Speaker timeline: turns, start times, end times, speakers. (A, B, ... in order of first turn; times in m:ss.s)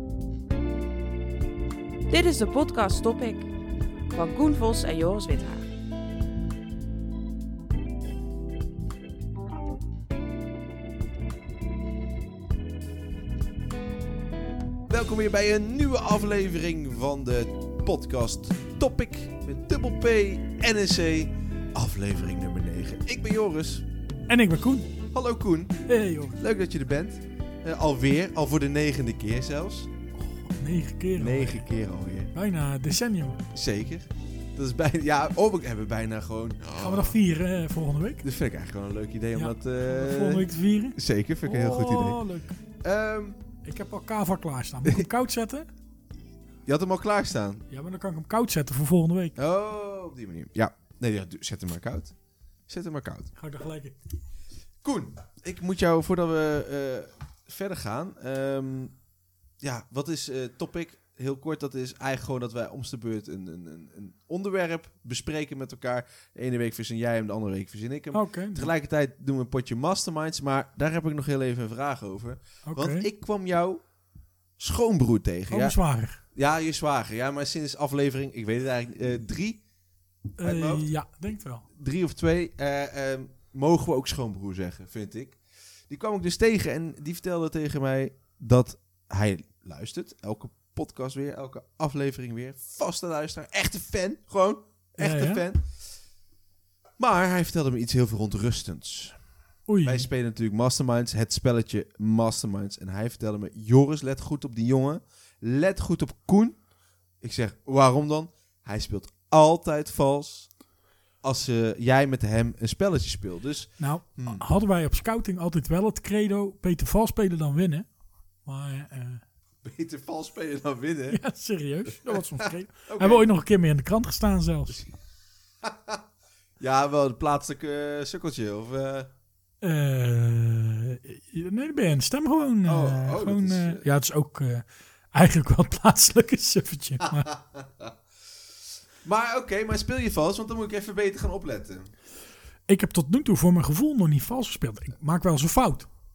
0:02.1-0:03.5 A
0:04.1-0:05.7 A
0:14.9-0:23.9 B
0:24.3-0:24.9 C
0:25.1-0:25.8 B
0:25.9-0:26.4 C
0:26.4-0:29.9 B
0:30.4-0:31.6 C
0:31.2-0:32.3 B
0:32.3-0:33.4 C
0:33.5-0:37.2 B
0:36.8-0:38.2 C
0:38.2-0:42.2 B
0:39.4-0:42.6 C
0:42.8-0:43.4 B
0:43.6-0:45.7 C
0:46.6-0:47.6 B
0:47.7-0:49.4 C
0:49.4-0:52.2 B
0:52.7-0:53.3 B
0:53.4-0:54.0 C
0:54.8-0:59.0 B
0:59.6-1:13.8 B
1:08.1-1:08.7 C
1:12.6-1:13.1 C
1:14.6-1:15.8 B
1:15.5-1:16.2 C
1:16.3-1:19.6 B
1:20.4-1:21.7 C
1:20.4-1:20.9 B
1:21.8-1:35.7 B
1:35.0-1:35.4 C
1:37.0-1:39.2 B
1:39.7-1:40.1 C
1:39.8-1:46.6 B
1:47.2-1:50.5 B
1:51.2-1:54.4 B
1:53.8-1:57.9 C
1:58.4-1:59.2 C
1:59.6-2:01.2 B
2:01.1-2:04.8 C
2:02.1-2:03.3 B
2:05.6-2:06.0 B
2:06.6-2:09.1 B
2:09.6-2:17.3 C
2:12.7-2:13.8 B
2:17.1-2:18.0 B
2:19.0-2:21.9 B
2:22.7-2:25.9 C